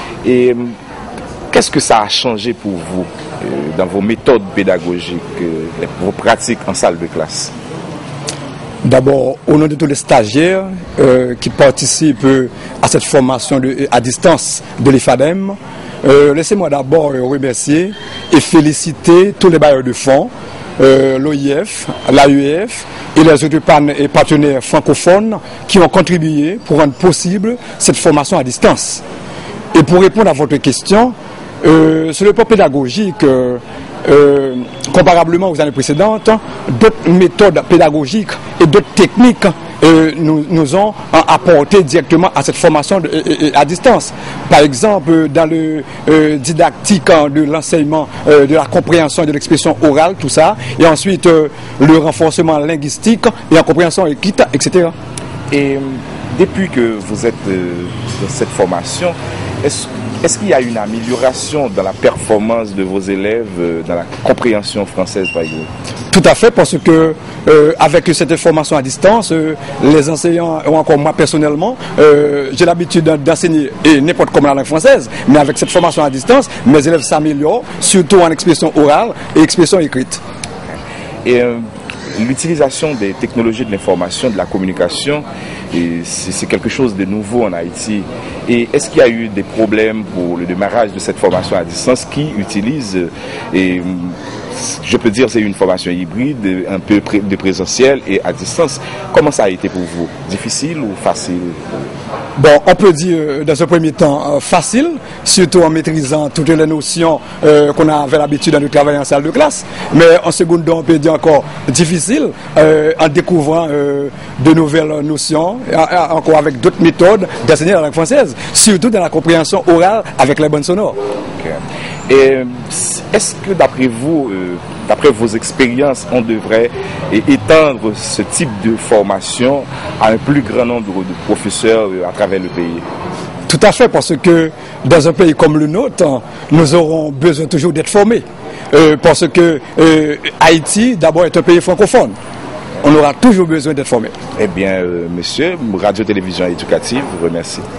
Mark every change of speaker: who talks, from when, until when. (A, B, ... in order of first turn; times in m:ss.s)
0:00.2-0:00.7 A
0:01.5-0:07.5 A
0:08.8-0:29.0 B
0:29.7-0:54.9 B
0:55.5-1:05.7 A
1:06.1-1:20.2 B
1:21.2-1:21.6 A
1:22.2-1:41.9 A
1:42.4-2:01.0 B
2:01.4-2:12.8 A
2:13.5-2:22.1 B
2:22.8-2:24.1 B
2:24.4-2:27.6 A